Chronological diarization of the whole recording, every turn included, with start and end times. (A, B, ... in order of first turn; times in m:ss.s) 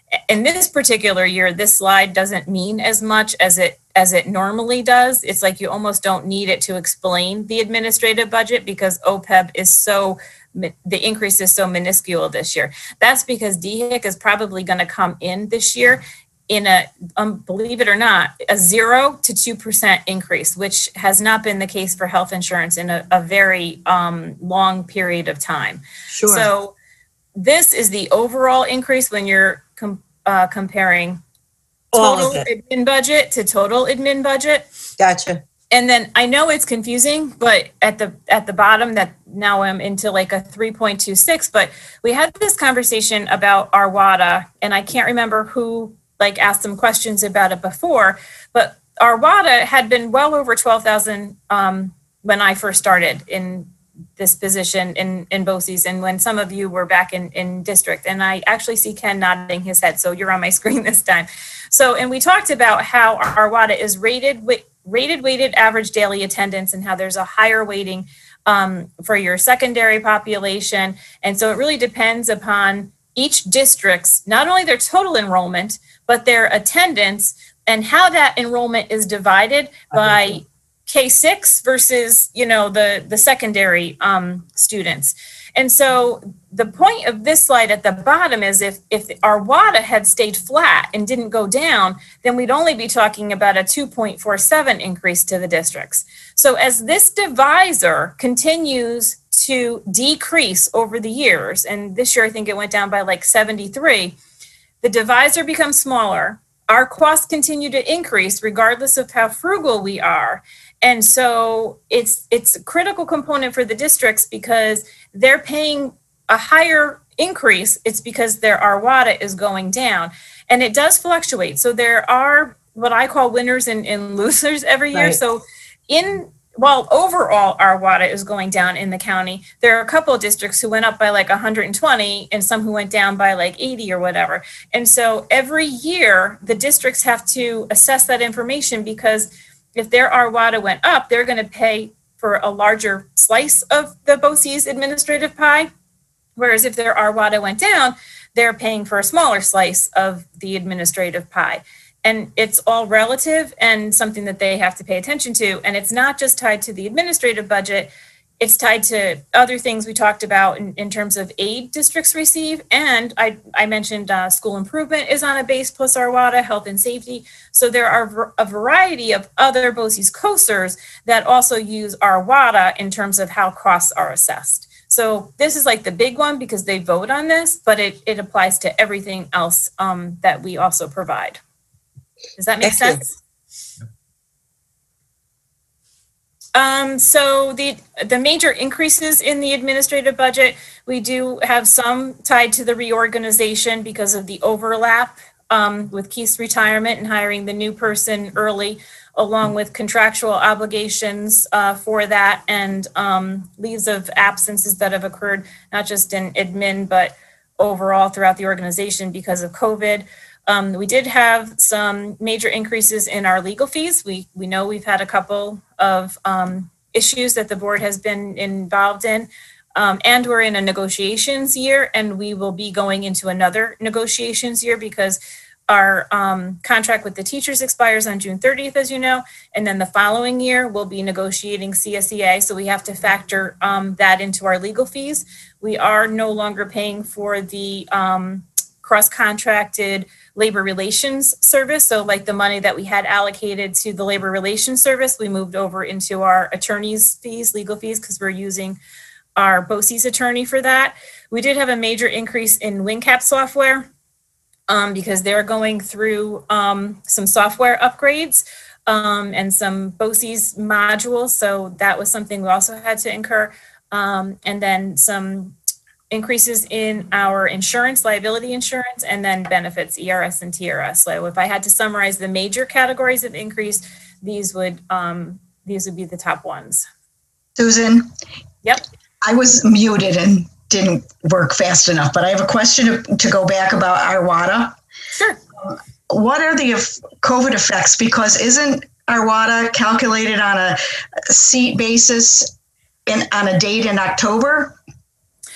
0:00.3-0:26.7 A
0:26.1-0:26.5 B
0:27.4-0:31.2 A
0:31.9-0:32.5 B
0:31.9-0:34.6 A
0:35.0-0:35.4 B
0:35.7-1:44.2 A
1:19.9-1:20.4 B
1:44.8-2:25.7 A
2:04.9-2:05.2 B
2:26.4-3:01.4 A
3:02.4-3:03.1 A
3:02.6-3:03.0 B
3:06.5-4:08.8 A
4:09.4-4:13.9 A
4:14.7-4:25.5 A
4:26.1-4:36.8 A
4:37.6-4:38.1 C
4:39.2-4:44.8 C
4:45.1-4:45.4 A
4:45.6-4:52.5 C
4:53.1-4:54.8 C